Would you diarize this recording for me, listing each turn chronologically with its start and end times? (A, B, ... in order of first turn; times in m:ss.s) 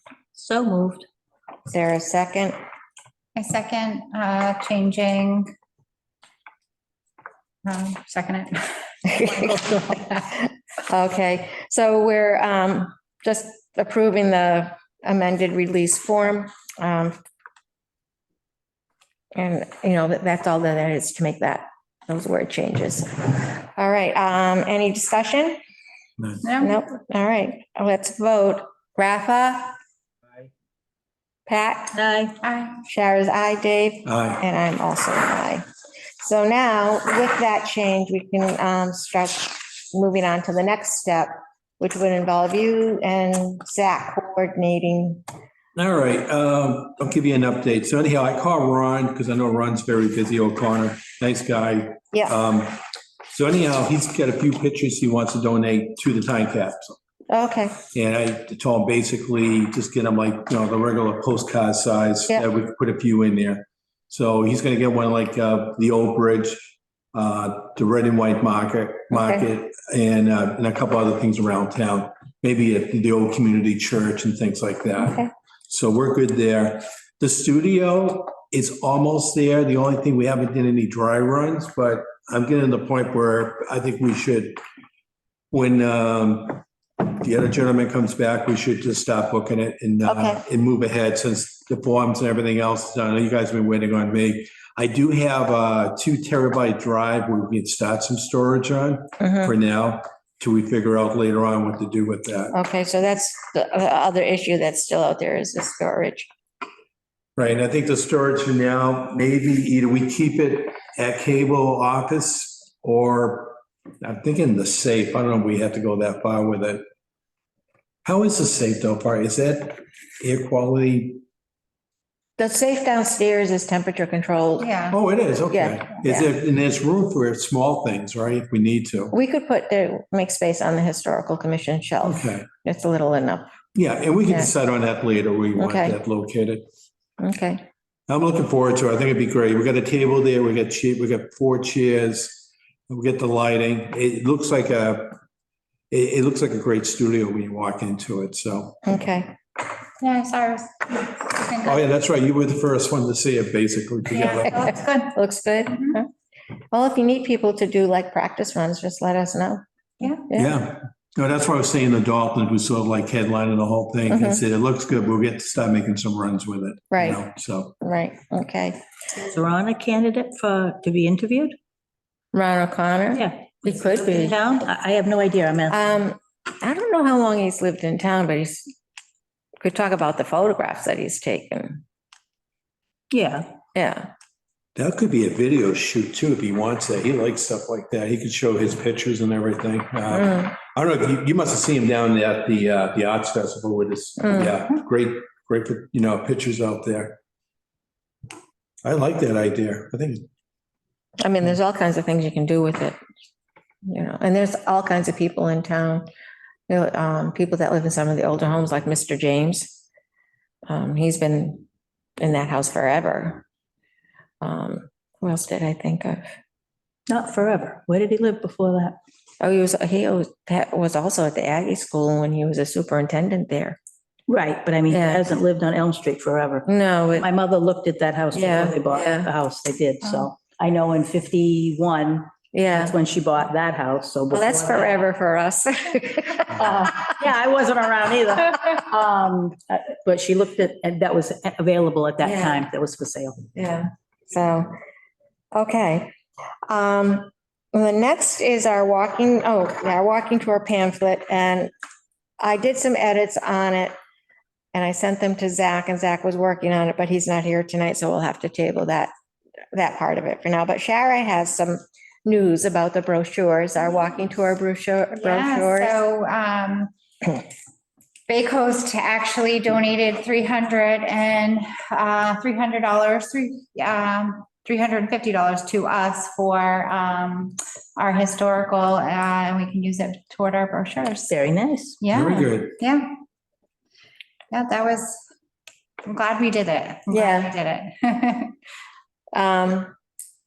0:00.4-0:01.0 A
0:01.7-0:02.6 B
0:03.4-0:05.5 C
0:07.6-0:10.2 C
0:09.0-0:17.2 B
0:19.4-0:25.6 B
0:26.4-0:26.8 C
0:26.6-0:29.7 B
0:31.5-0:32.0 B
0:31.9-0:32.3 A
0:32.4-0:32.8 C
0:32.8-0:35.6 B
0:34.0-0:34.4 D
0:36.2-0:45.2 B
0:45.7-0:57.0 D
0:57.3-0:57.8 B
0:57.9-1:24.6 D
1:09.1-1:09.4 B
1:25.5-1:42.5 D
1:30.0-1:30.4 B
1:39.2-1:39.5 B
1:42.5-1:46.3 B
1:47.4-1:56.8 D
1:58.0-2:01.2 D
2:02.4-2:04.8 B
2:04.6-2:05.0 C
2:04.9-2:09.1 D
2:05.5-2:06.3 B
2:09.1-2:13.5 B
2:12.0-2:12.5 D
2:13.7-2:16.7 D
2:15.6-2:16.0 B
2:17.2-2:17.6 B
2:18.1-2:25.2 D
2:25.9-2:28.8 D
2:28.8-2:29.3 B
2:30.0-2:31.8 C
2:31.6-2:34.7 D
2:34.1-2:35.1 C
2:34.5-2:36.1 B
2:36.7-2:40.6 B
2:40.3-2:47.7 D
2:44.1-2:44.4 B
2:46.9-2:47.2 B
2:47.8-2:48.8 B
2:49.2-2:51.5 A
2:52.3-2:54.3 B
2:53.1-2:55.8 A
2:55.7-2:58.7 B
2:59.6-3:01.8 B
3:03.1-3:03.4 A
3:03.7-3:04.1 B
3:04.8-3:17.2 D
3:10.1-3:10.5 B
3:14.2-3:14.5 B
3:18.8-3:20.3 D
3:21.2-3:23.0 B
3:23.8-3:26.1 B
3:26.7-3:29.8 B
3:30.7-3:31.6 B
3:32.2-3:33.4 B
3:34.4-3:36.2 B
3:37.1-3:39.0 A
3:39.4-3:43.8 B
3:44.3-3:46.6 A
3:44.9-3:45.2 B
3:46.6-3:47.3 B
3:47.2-3:55.0 A
3:48.3-3:49.3 B
3:52.5-3:52.9 B
3:54.3-3:56.6 B
3:56.5-4:03.4 A
4:02.2-4:02.6 B
4:03.5-4:04.7 B
4:05.5-4:06.1 B
4:06.7-4:11.7 B
4:12.4-4:13.9 B
4:14.7-4:19.1 B
4:19.7-4:26.0 B
4:25.1-4:26.9 C
4:28.3-4:41.3 C
4:41.3-4:42.0 A
4:42.0-4:43.1 C
4:42.1-4:42.8 D
4:44.5-4:45.2 C
4:46.0-4:48.5 C
4:47.1-4:47.5 B
4:49.3-4:49.9 B